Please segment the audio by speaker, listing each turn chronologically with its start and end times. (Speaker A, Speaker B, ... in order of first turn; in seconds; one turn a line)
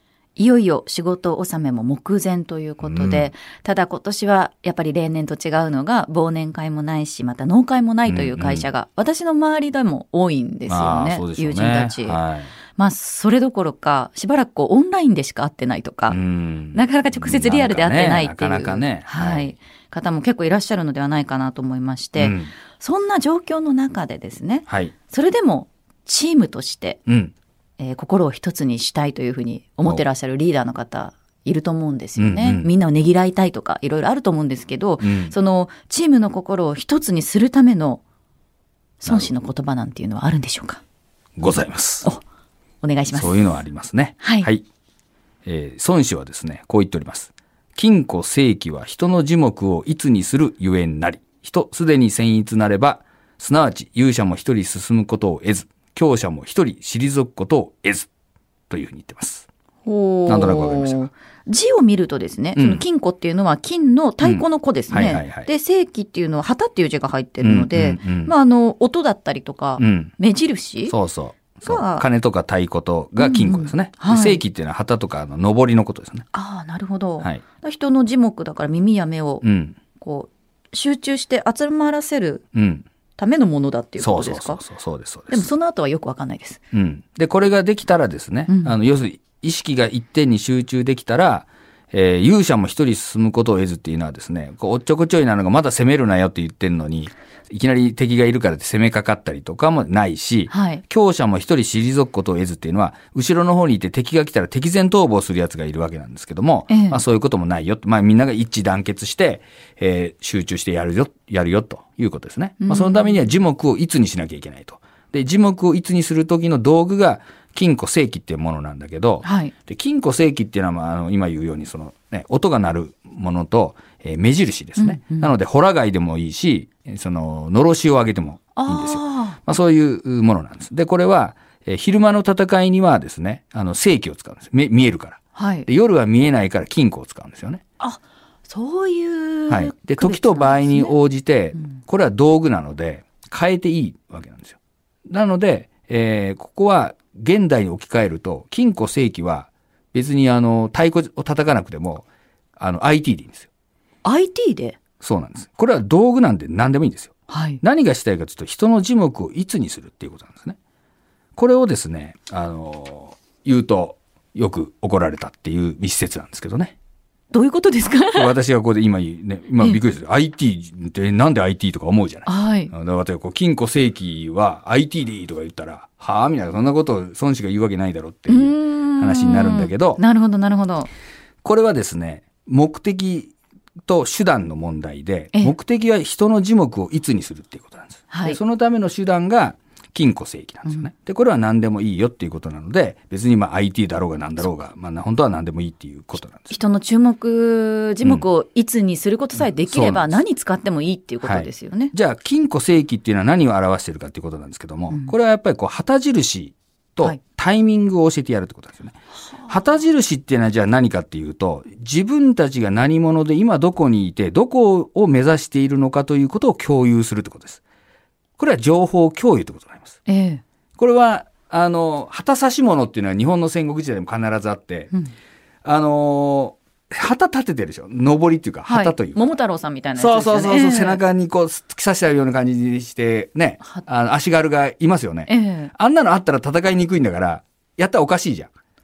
Speaker A: 0.4-12.2
Speaker B: 2.8-3.3
Speaker B: 8.1-8.7
Speaker B: 10.7-12.5
Speaker A: 12.8-16.2
Speaker B: 16.1-19.5
Speaker A: 16.7-27.0
Speaker B: 22.2-22.5
Speaker B: 24.7-24.9
Speaker B: 27.1-27.3
Speaker A: 27.8-38.0
Speaker B: 32.2-32.7
Speaker B: 35.0-35.4
Speaker A: 39.0-40.8
Speaker B: 39.0-39.3
Speaker B: 41.4-42.1
Speaker A: 42.8-43.4
Speaker B: 43.1-44.6
Speaker A: 44.2-44.5
Speaker B: 45.5-58.1
Speaker B: 58.7-59.5
Speaker A: 59.9-70.9
Speaker B: 60.3-61.1
Speaker B: 62.6-62.8
Speaker B: 64.2-65.5
Speaker B: 67.4-68.3
Speaker B: 69.8-70.1
Speaker B: 70.9-76.3
Speaker A: 71.6-72.0
Speaker A: 73.2-74.4
Speaker A: 76.3-79.4
Speaker B: 79.4-79.8
Speaker A: 80.0-82.4
Speaker B: 82.5-82.9
Speaker A: 83.2-84.6
Speaker B: 84.0-85.5
Speaker A: 85.3-86.6
Speaker B: 86.7-137.6
Speaker A: 88.5-88.8
Speaker A: 100.5-100.8
Speaker A: 106.7-107.0
Speaker A: 112.6-113.2
Speaker A: 119.2-119.5
Speaker A: 124.8-125.3
Speaker A: 128.6-129.4
Speaker A: 135.3-135.7
Speaker A: 137.8-140.9
Speaker B: 139.5-144.6
Speaker B: 145.1-152.1
Speaker B: 152.6-153.5
Speaker A: 154.0-154.8
Speaker B: 155.0-160.6
Speaker A: 157.3-157.6
Speaker B: 161.4-166.8
Speaker A: 167.3-168.3
Speaker B: 168.1-180.0
Speaker A: 172.3-172.7
Speaker A: 178.3-180.9
Speaker B: 181.4-183.3
Speaker B: 183.9-196.6
Speaker A: 188.1-188.4
Speaker A: 196.5-201.9
Speaker B: 199.6-200.2
Speaker B: 201.2-217.6
Speaker A: 204.9-205.2
Speaker A: 209.3-209.6
Speaker B: 218.4-220.0
Speaker A: 220.1-220.4
Speaker B: 220.8-224.9
Speaker B: 225.6-229.2
Speaker A: 228.7-231.0
Speaker B: 230.0-238.5
Speaker A: 235.3-235.7